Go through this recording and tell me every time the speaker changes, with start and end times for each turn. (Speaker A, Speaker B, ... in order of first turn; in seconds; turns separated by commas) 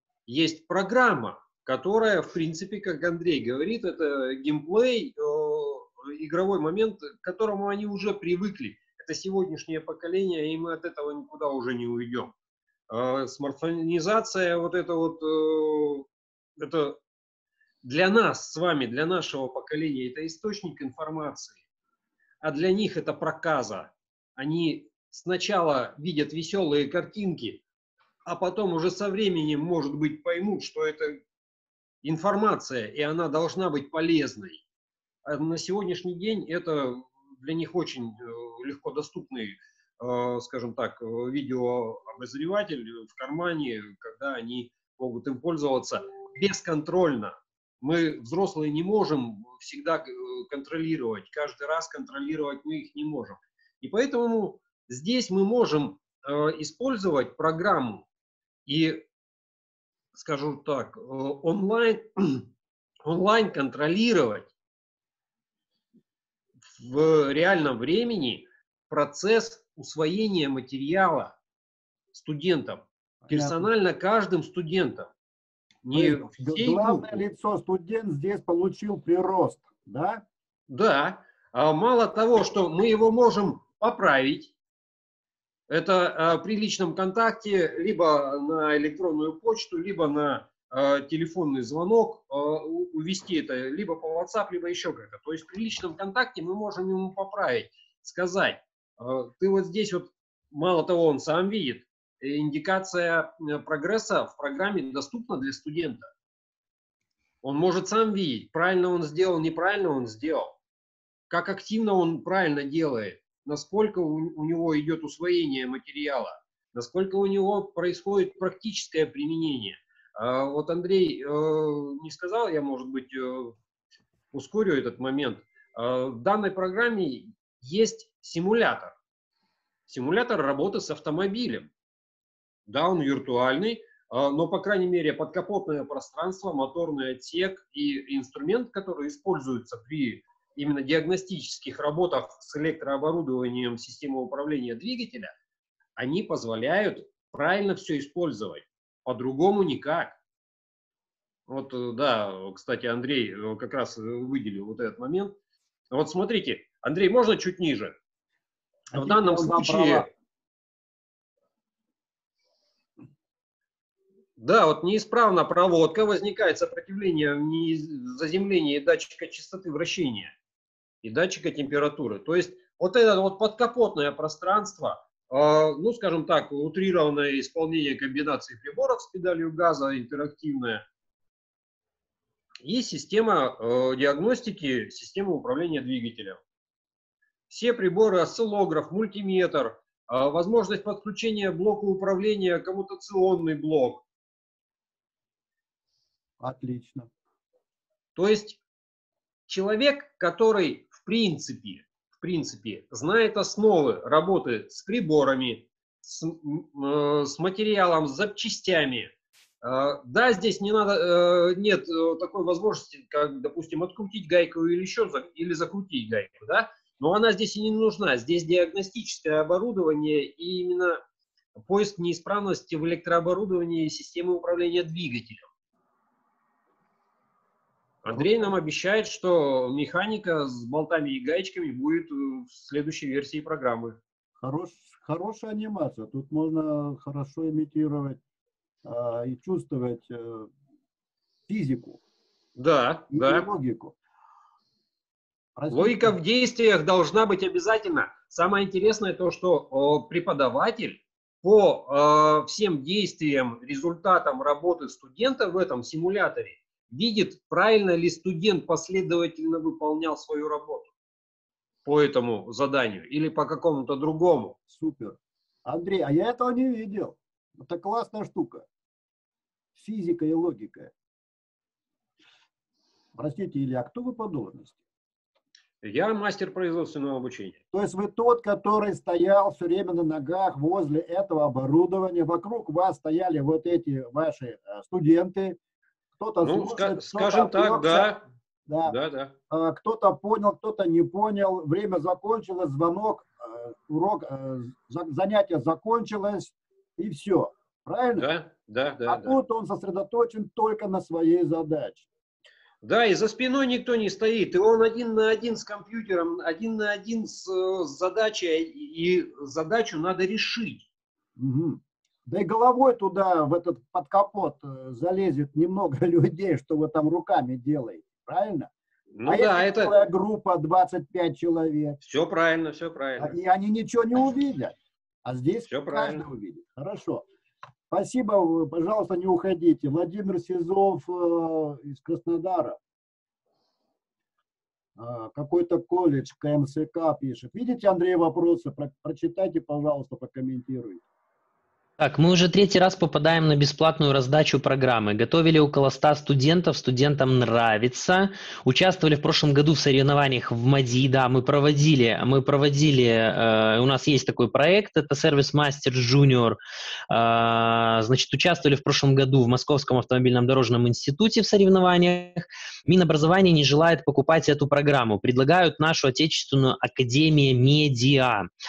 Speaker A: 0.3-12.3, Speaker A: 12.9-17.0, Speaker A: 17.8-21.6, Speaker A: 22.4-27.6, Speaker A: 28.2-31.2, Speaker A: 32.0-34.6, Speaker A: 35.2-58.1, Speaker A: 58.7-59.1, Speaker A: 60.1-62.5, Speaker A: 63.0-64.5, Speaker A: 66.7-71.4, Speaker A: 72.1-75.1, Speaker B: 73.2-73.7, Speaker A: 75.8-77.2, Speaker B: 75.9-80.2, Speaker A: 80.7-84.5, Speaker A: 85.7-106.1, Speaker A: 107.4-110.5, Speaker A: 111.3-123.6, Speaker A: 124.3-129.0, Speaker A: 129.9-131.7, Speaker A: 132.7-145.3, Speaker A: 146.0-150.2, Speaker A: 151.5-155.4, Speaker A: 155.9-158.0, Speaker B: 158.9-160.1, Speaker A: 158.9-160.1, Speaker A: 164.4-170.3, Speaker A: 171.0-180.9, Speaker A: 182.6-186.4, Speaker A: 187.5-194.1, Speaker B: 196.4-197.1, Speaker A: 198.2-198.6, Speaker A: 199.5-221.0, Speaker A: 221.6-225.5, Speaker A: 228.0-234.0, Speaker B: 228.1-228.4, Speaker B: 234.4-238.2, Speaker B: 238.8-240.5, Speaker B: 241.5-242.0, Speaker A: 242.6-243.5, Speaker B: 243.1-244.0, Speaker B: 245.6-246.1, Speaker A: 245.7-260.9, Speaker A: 261.9-264.6, Speaker B: 264.7-268.7, Speaker B: 269.8-270.9, Speaker B: 273.1-274.8, Speaker A: 275.8-277.6, Speaker B: 277.7-285.6, Speaker B: 286.2-289.0, Speaker A: 286.4-288.2, Speaker A: 288.9-289.3, Speaker B: 289.5-298.3, Speaker A: 298.2-299.4, Speaker B: 299.1-302.1, Speaker A: 302.8-310.9, Speaker B: 311.4-318.7, Speaker A: 319.1-319.9, Speaker B: 319.2-322.0, Speaker A: 322.0-323.4, Speaker B: 323.2-327.2, Speaker A: 325.7-326.2, Speaker B: 327.9-332.8, Speaker B: 335.0-341.0, Speaker C: 342.0-356.6, Speaker C: 357.1-368.5